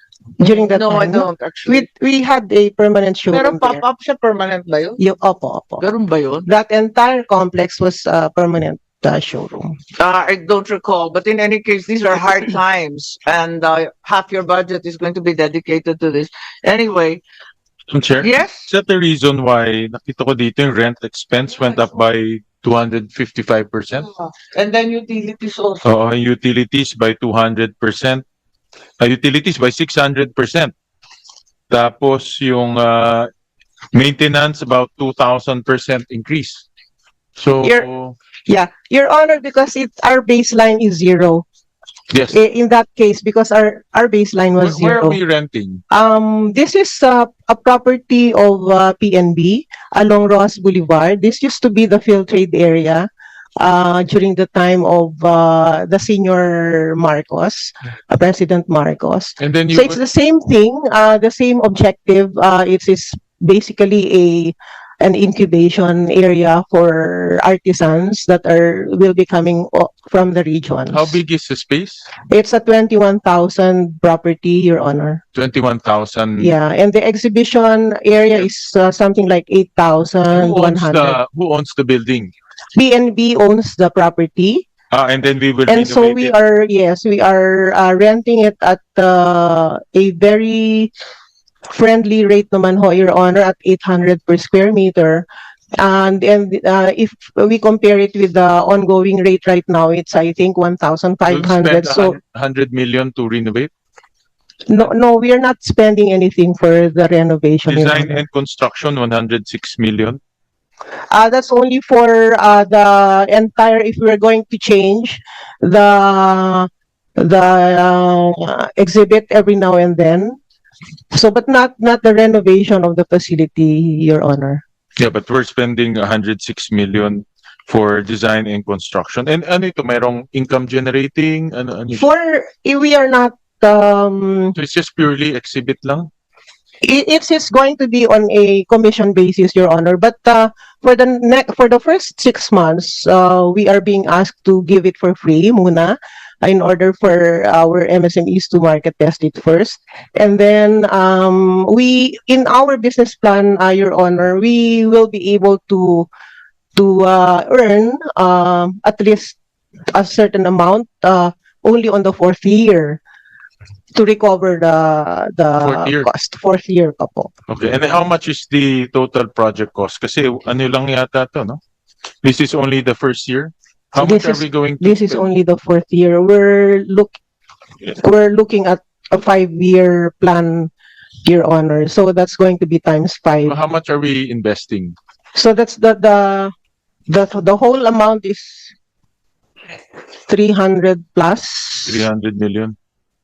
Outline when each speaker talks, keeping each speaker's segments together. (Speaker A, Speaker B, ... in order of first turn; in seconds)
Speaker A: 0.4-1.9, 3.3-5.0, 5.8-6.5, 10.0-17.2, 18.2-18.7, 24.0-25.8
Speaker B: 0.4-3.8, 5.0-5.8, 6.5-9.7, 38.5-41.5, 42.3-45.2, 45.9-53.1, 53.6-71.2, 72.3-75.2, 76.4-81.2, 82.8-84.6, 85.7-90.9, 91.7-95.2, 95.8-102.2, 104.7-108.2, 111.1-120.4, 121.1-124.6, 131.9-134.6, 136.8-156.1, 156.8-159.4, 159.9-163.0, 163.9-167.3, 174.0-177.2, 177.9-180.7, 181.2-183.6, 185.3-186.5, 187.1-188.7, 190.3-192.1
Speaker C: 17.9-24.1, 25.9-28.2, 29.0-30.7, 31.7-33.3, 33.9-36.6, 37.4-38.2, 42.1-42.4, 44.6-45.8, 59.4-60.0, 70.9-72.1, 75.3-76.5, 80.3-82.3, 84.9-86.3, 101.3-103.7, 107.7-110.2, 125.0-132.1, 134.6-136.1, 165.6-166.1, 167.5-171.6, 172.2-175.3, 183.5-184.9, 191.9-192.8